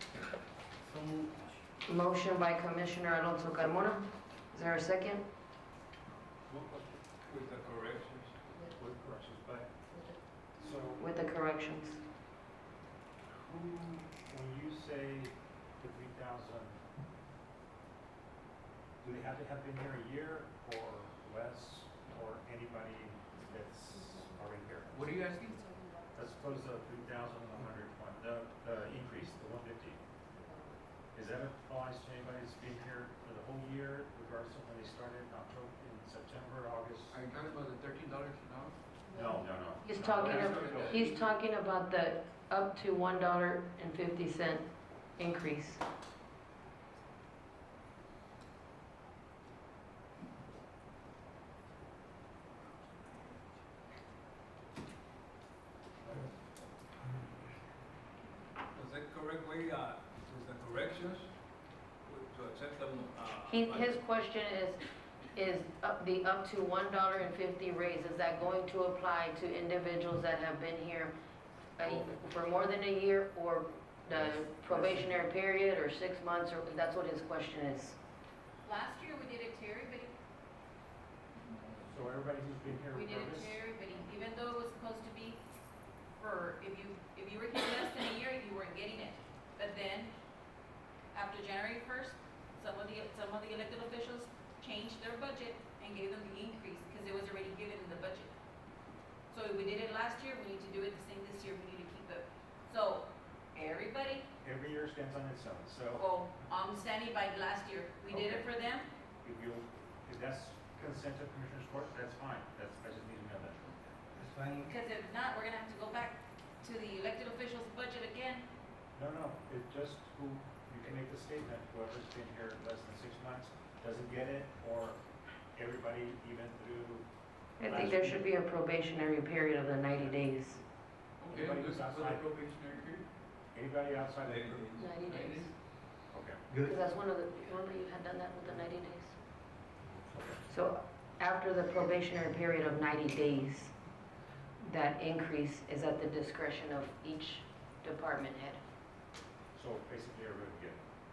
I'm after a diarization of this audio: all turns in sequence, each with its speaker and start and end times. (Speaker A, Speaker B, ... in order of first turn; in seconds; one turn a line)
Speaker A: 1.9-5.2
Speaker B: 6.5-8.4
Speaker C: 8.7-9.7
Speaker C: 10.6-11.1
Speaker A: 10.9-12.0
Speaker C: 13.3-16.8
Speaker C: 19.0-25.1
Speaker D: 24.9-25.5
Speaker C: 26.1-30.0
Speaker C: 31.1-37.2
Speaker D: 37.1-38.8
Speaker C: 39.1-41.0
Speaker A: 39.8-44.6
Speaker D: 40.1-41.2
Speaker A: 45.2-45.8
Speaker B: 58.7-61.3
Speaker B: 62.0-64.0
Speaker A: 63.5-64.8
Speaker A: 65.3-71.1
Speaker A: 71.8-78.0
Speaker C: 74.1-75.2
Speaker E: 78.6-80.1
Speaker C: 81.8-83.6
Speaker E: 82.9-85.4
Speaker E: 86.2-90.1
Speaker E: 91.1-98.3
Speaker E: 99.3-104.2
Speaker C: 104.4-106.1
Speaker E: 106.0-108.9
Speaker C: 108.1-108.5
Speaker C: 109.2-113.7
Speaker E: 114.7-118.5
Speaker C: 119.0-125.0
Speaker C: 125.5-127.1
Speaker C: 127.6-128.3
Speaker A: 127.6-130.6
Speaker C: 129.8-130.2
Speaker D: 131.2-133.1
Speaker C: 131.3-132.2
Speaker C: 133.5-134.7
Speaker B: 134.2-134.9
Speaker A: 134.8-135.5
Speaker D: 135.0-135.5
Speaker C: 136.1-136.4
Speaker A: 136.6-139.1
Speaker A: 140.5-143.7
Speaker A: 144.6-148.6
Speaker C: 149.6-150.8